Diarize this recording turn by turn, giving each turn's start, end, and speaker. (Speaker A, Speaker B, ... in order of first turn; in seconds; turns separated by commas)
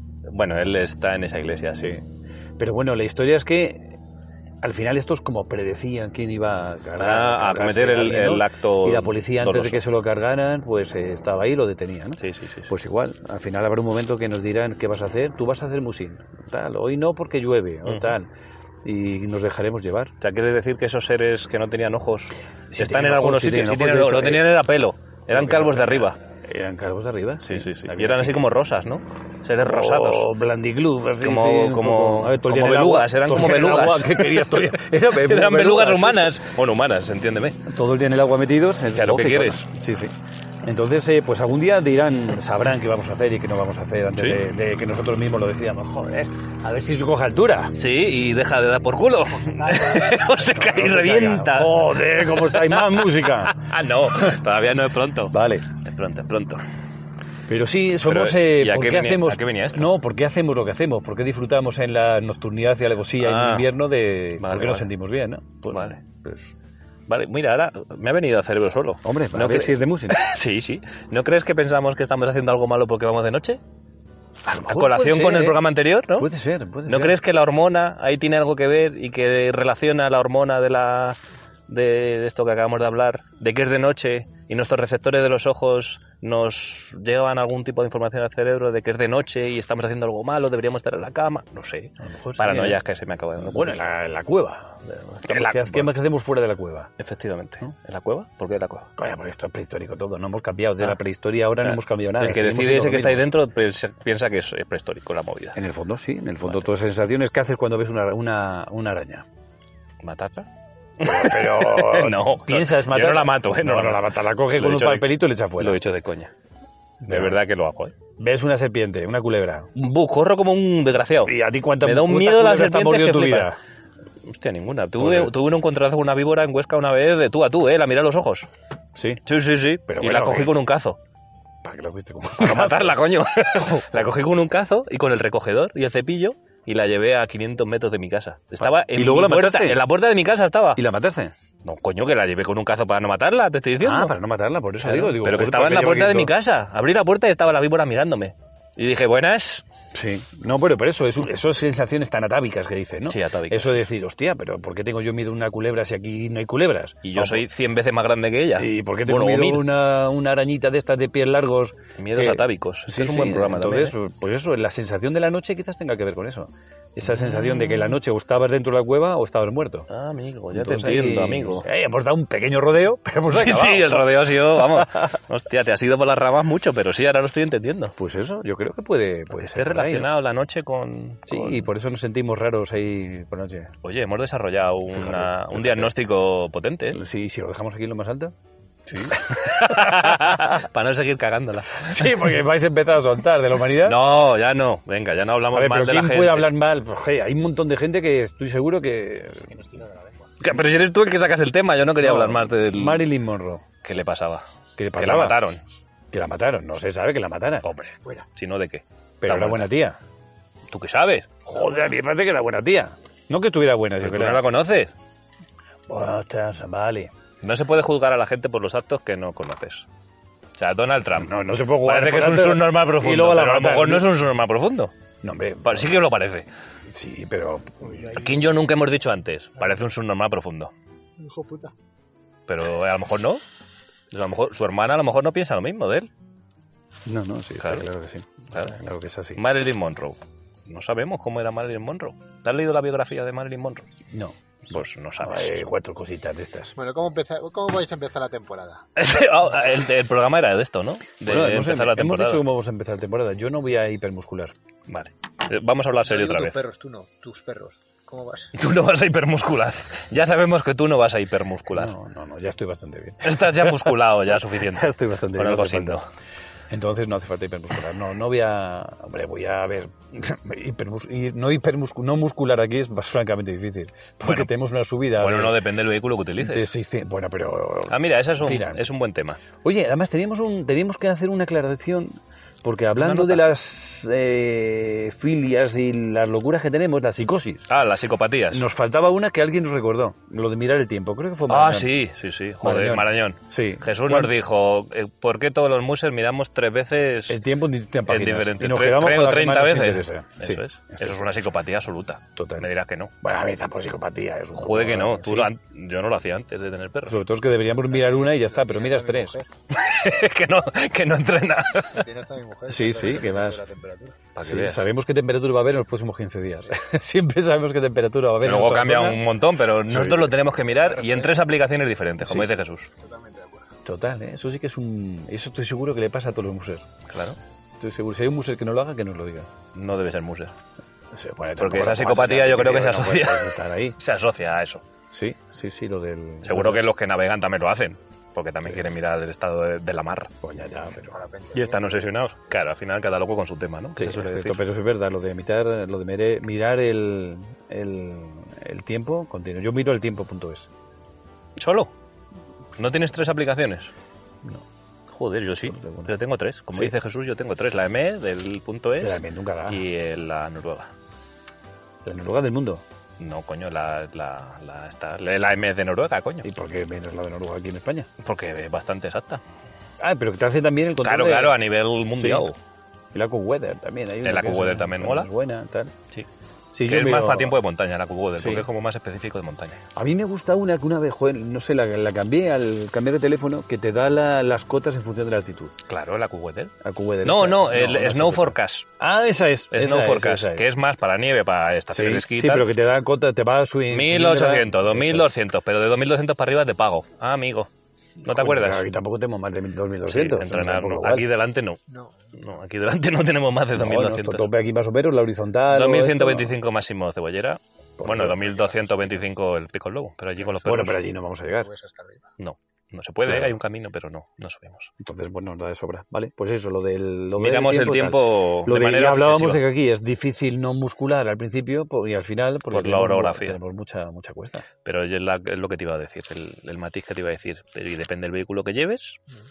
Speaker A: 0.3-2.0, Speaker B: 2.6-4.0, Speaker B: 4.6-18.3, Speaker A: 7.0-9.8, Speaker A: 12.2-12.7, Speaker A: 17.8-18.2, Speaker B: 18.8-20.1, Speaker A: 20.2-26.2, Speaker B: 22.7-24.5, Speaker B: 25.3-28.4, Speaker A: 27.4-30.3, Speaker B: 29.6-36.4, Speaker A: 31.2-37.6, Speaker B: 37.7-40.1, Speaker A: 38.9-39.7, Speaker B: 40.6-47.7, Speaker A: 44.1-44.4, Speaker A: 47.7-56.6, Speaker C: 49.6-50.2, Speaker B: 50.5-53.6, Speaker B: 55.3-55.7, Speaker B: 57.5-66.5, Speaker A: 58.0-59.9, Speaker A: 63.2-63.7, Speaker A: 64.4-64.9, Speaker A: 65.7-66.0, Speaker A: 67.1-73.6, Speaker B: 69.0-70.2, Speaker B: 74.5-77.2, Speaker A: 74.7-76.3, Speaker A: 76.9-93.8, Speaker B: 92.0-92.8, Speaker B: 93.4-96.9, Speaker A: 94.8-95.9, Speaker A: 97.0-98.9, Speaker B: 99.0-103.3, Speaker A: 101.6-105.6, Speaker B: 105.5-109.2, Speaker A: 106.4-106.7, Speaker A: 110.0-110.5, Speaker A: 111.0-116.3, Speaker B: 111.0-115.8, Speaker B: 117.0-117.4, Speaker A: 117.0-118.0, Speaker B: 118.2-119.7, Speaker A: 119.8-123.5, Speaker B: 121.2-123.6, Speaker A: 124.2-128.5, Speaker B: 125.0-125.3, Speaker B: 128.9-129.2, Speaker A: 129.2-131.0, Speaker B: 129.9-130.6, Speaker B: 131.6-133.0, Speaker A: 132.4-140.8, Speaker B: 133.6-134.1, Speaker B: 138.6-139.8, Speaker B: 140.8-141.3, Speaker A: 141.6-144.2, Speaker B: 143.8-146.3, Speaker A: 144.8-149.6, Speaker B: 149.9-157.4, Speaker A: 153.1-153.9, Speaker A: 157.0-159.7, Speaker B: 158.6-169.9, Speaker A: 162.0-164.0, Speaker A: 167.1-168.0, Speaker A: 169.9-171.7, Speaker B: 170.5-174.8, Speaker A: 173.3-177.9, Speaker B: 178.0-180.1, Speaker A: 179.3-181.7, Speaker B: 181.3-183.7, Speaker A: 183.8-187.0, Speaker B: 184.9-185.9, Speaker B: 186.9-188.3, Speaker B: 188.9-190.5, Speaker A: 189.0-192.2, Speaker B: 191.8-194.0, Speaker A: 193.8-196.5, Speaker B: 195.5-199.5, Speaker C: 199.5-200.3, Speaker A: 200.4-203.1, Speaker B: 202.0-203.6, Speaker A: 203.8-205.6, Speaker B: 204.8-205.6, Speaker B: 206.1-207.7, Speaker A: 207.6-209.7, Speaker B: 209.2-210.0, Speaker A: 210.7-211.3, Speaker B: 211.5-214.4, Speaker A: 214.0-214.9, Speaker B: 215.9-217.1, Speaker A: 217.4-219.9, Speaker A: 220.6-224.9, Speaker B: 221.2-224.1, Speaker B: 225.2-226.0, Speaker A: 225.6-226.5, Speaker B: 226.9-228.0, Speaker C: 227.9-228.4, Speaker A: 228.0-230.7, Speaker C: 231.2-231.7, Speaker A: 232.5-233.4, Speaker A: 234.1-236.1, Speaker B: 237.1-239.4, Speaker A: 237.6-237.9, Speaker A: 239.4-243.9, Speaker B: 244.1-244.4, Speaker A: 244.7-245.7, Speaker B: 245.2-246.8, Speaker C: 246.8-248.8, Speaker A: 249.0-252.5, Speaker B: 251.2-254.5, Speaker A: 254.9-256.6, Speaker C: 256.0-258.5, Speaker A: 258.6-261.9, Speaker B: 261.7-266.0, Speaker A: 263.2-266.1, Speaker B: 266.7-275.6, Speaker A: 274.2-274.5, Speaker A: 275.2-276.7, Speaker B: 276.4-278.9, Speaker A: 277.9-279.4, Speaker B: 279.6-287.7, Speaker A: 283.0-283.5, Speaker A: 287.7-288.7, Speaker B: 288.5-292.0, Speaker A: 291.5-297.4, Speaker B: 292.6-294.3, Speaker B: 297.3-301.3, Speaker A: 298.1-303.1, Speaker B: 302.4-302.7, Speaker B: 303.2-305.5, Speaker A: 304.6-307.2, Speaker B: 307.1-309.4, Speaker C: 307.9-309.5, Speaker A: 309.7-312.1, Speaker C: 311.9-314.2, Speaker B: 312.7-313.6, Speaker A: 314.4-314.9, Speaker B: 314.4-319.2, Speaker A: 318.4-322.9, Speaker B: 319.9-320.4, Speaker C: 320.9-321.4, Speaker B: 322.2-322.5, Speaker C: 323.0-323.7, Speaker B: 323.9-326.9, Speaker A: 327.1-327.4, Speaker B: 327.8-329.5, Speaker A: 329.7-330.6, Speaker B: 331.1-334.0, Speaker A: 331.6-334.9, Speaker B: 335.1-336.9, Speaker A: 336.4-340.3, Speaker B: 340.4-341.2, Speaker C: 341.0-342.0, Speaker A: 341.5-344.6, Speaker B: 344.0-350.7, Speaker A: 351.6-351.9, Speaker A: 352.8-353.9, Speaker A: 355.1-360.9, Speaker B: 355.6-356.2, Speaker B: 359.0-359.8, Speaker B: 362.1-362.8, Speaker A: 363.2-366.5, Speaker B: 366.4-368.1, Speaker A: 368.2-369.4, Speaker B: 370.0-371.6, Speaker A: 371.0-372.6, Speaker B: 372.2-372.5, Speaker B: 373.1-375.9, Speaker A: 374.2-375.3, Speaker B: 376.7-377.6, Speaker A: 376.9-379.8, Speaker B: 378.4-378.7, Speaker B: 379.9-385.8, Speaker A: 385.9-388.9, Speaker B: 386.8-390.7, Speaker A: 389.7-392.7, Speaker B: 391.9-395.3, Speaker A: 393.9-398.9, Speaker B: 398.2-401.3, Speaker A: 400.1-401.8, Speaker C: 401.9-402.4, Speaker A: 402.4-404.5, Speaker B: 403.8-406.6, Speaker A: 405.7-411.1, Speaker B: 408.0-408.4, Speaker B: 410.6-411.7, Speaker C: 411.4-412.3, Speaker A: 412.4-414.9, Speaker B: 413.2-413.5, Speaker B: 415.0-424.6, Speaker A: 417.4-419.6, Speaker A: 422.7-423.6, Speaker A: 424.8-429.2